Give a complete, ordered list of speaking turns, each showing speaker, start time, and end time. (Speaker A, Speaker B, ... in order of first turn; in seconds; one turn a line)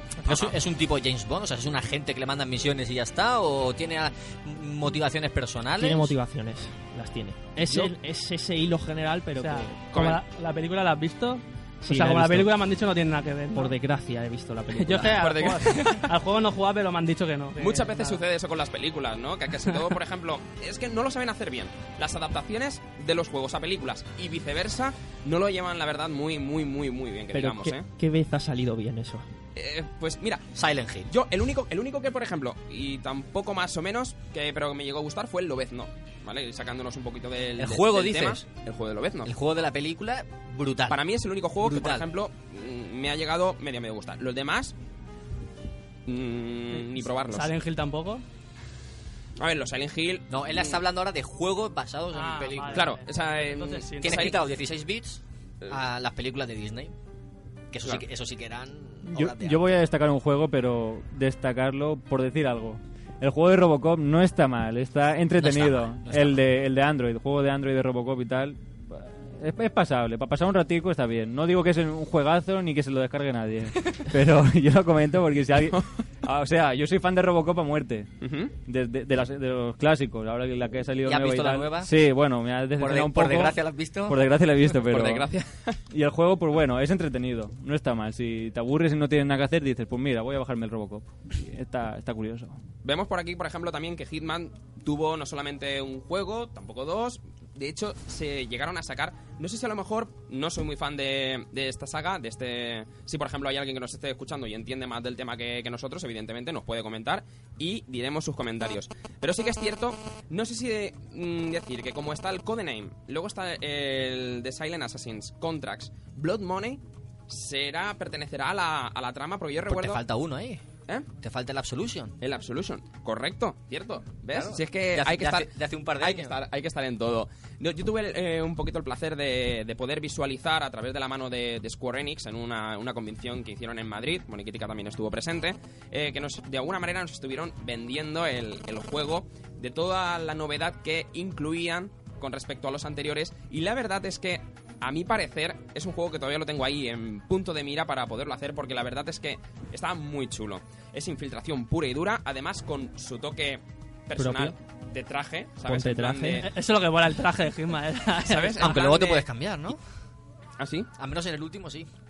Speaker A: 0.2-6.1
Speaker B: 5.8-9.9
Speaker C: 9.4-13.7
Speaker D: 9.9-10.2
Speaker B: 11.8-12.5
Speaker B: 13.5-15.2
Speaker C: 14.7-18.2
Speaker D: 15.0-16.1
Speaker D: 17.6-27.8
Speaker B: 27.3-29.2
Speaker D: 29.6-30.5
Speaker A: 30.6-31.1
Speaker D: 31.1-39.3
Speaker A: 37.6-38.4
Speaker A: 39.2-41.0
Speaker D: 40.9-44.7
Speaker A: 41.6-42.0
Speaker D: 46.1-47.5
Speaker C: 47.3-48.2
Speaker D: 49.4-50.8
Speaker A: 50.3-52.9
Speaker C: 52.1-54.3
Speaker D: 52.7-54.4
Speaker A: 54.0-56.9
Speaker A: 57.7-59.7
Speaker E: 59.0-78.1
Speaker A: 65.4-66.5
Speaker D: 78.2-78.5
Speaker E: 78.6-85.3
Speaker A: 81.0-81.9
Speaker A: 82.8-84.3
Speaker D: 84.9-85.8
Speaker E: 85.9-92.6
Speaker D: 92.8-120.0
Speaker A: 119.7-120.6
Speaker A: 121.2-122.1
Speaker D: 122.2-156.5
Speaker A: 124.3-126.3
Speaker B: 154.2-154.5
Speaker B: 155.7-156.4
Speaker C: 156.4-158.6
Speaker D: 158.2-159.2
Speaker A: 158.6-159.8
Speaker D: 160.6-160.9
Speaker A: 161.0-161.9